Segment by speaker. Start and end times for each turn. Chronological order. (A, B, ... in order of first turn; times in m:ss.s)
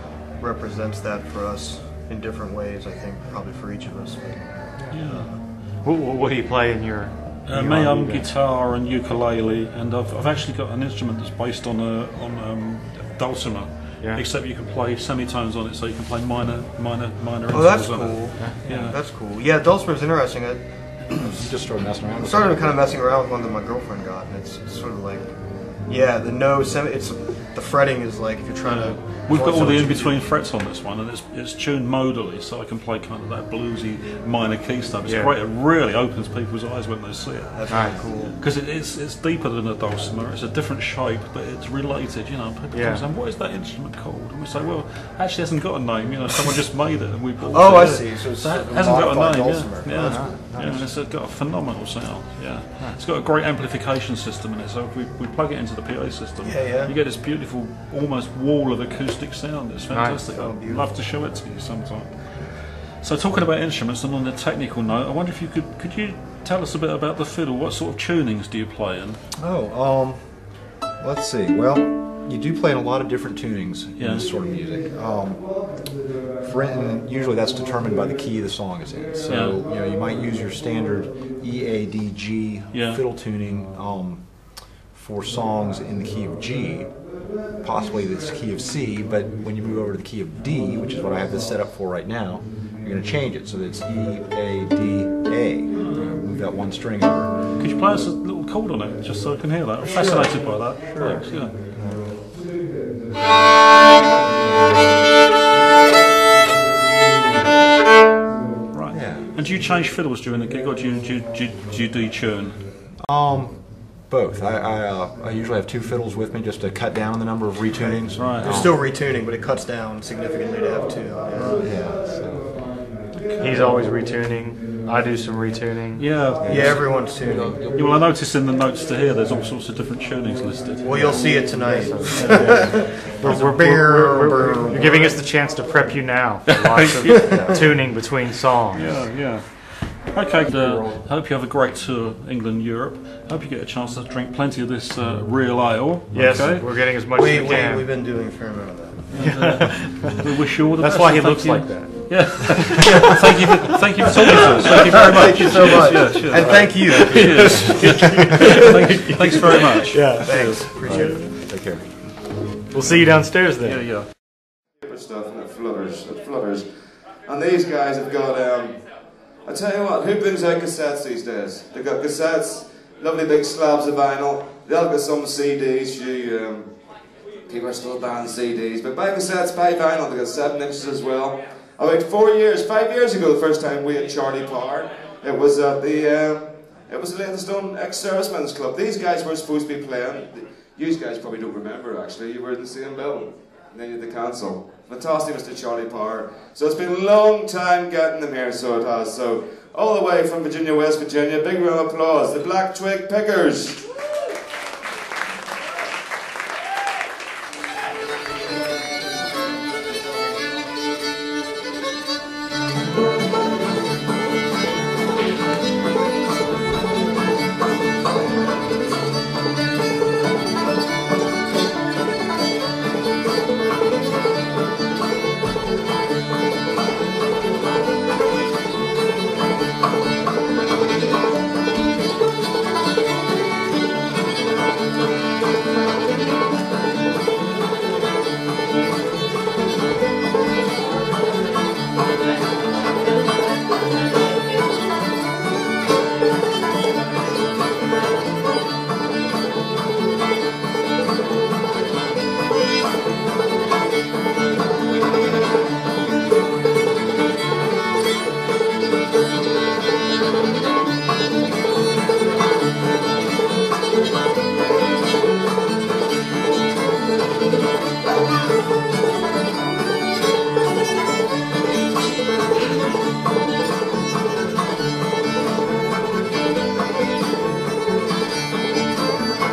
0:00.4-0:05.4 A
0:04.9-0:05.3 B
0:05.6-0:08.3 C
0:07.4-0:19.0 B
0:17.5-0:21.3 A
0:21.2-0:22.8 D
0:22.2-0:25.3 A
0:25.8-0:30.2 A
0:28.8-1:09.2 B
0:35.0-0:35.3 C
0:37.5-0:38.4 A
0:37.7-0:38.0 C
0:42.7-0:43.0 C
0:47.5-0:50.8 A
0:49.9-0:50.8 D
0:49.9-0:50.3 C
0:56.4-0:56.9 A
0:59.9-1:00.2 C
1:00.3-1:00.8 A
1:09.4-1:37.4 D
1:14.0-1:14.3 B
1:19.2-1:19.6 B
1:22.7-1:23.0 B
1:37.6-1:41.5 B
1:39.8-1:42.3 D
1:48.7-1:52.7 B
1:48.9-1:49.3 D
1:53.0-1:58.8 D
1:57.7-2:01.7 A
1:58.2-1:58.7 B
2:01.4-2:01.6 B
2:01.6-2:02.9 D
2:03.4-2:06.3 C
2:06.0-2:11.2 B
2:06.4-2:07.7 A
2:06.4-2:06.8 D
2:10.8-2:15.2 A
2:11.0-2:19.0 C
2:12.1-2:13.5 B
2:18.7-2:26.8 B
2:20.5-2:21.0 D
2:26.1-2:27.8 C
2:27.0-2:29.1 A
2:29.1-2:41.2 B
2:29.2-2:30.3 C
2:30.8-2:33.1 C
2:34.4-2:41.4 A
2:36.1-2:41.3 C
2:40.4-2:42.4 D
2:42.7-2:43.8 C
2:42.9-2:44.1 B
2:44.8-3:23.8 E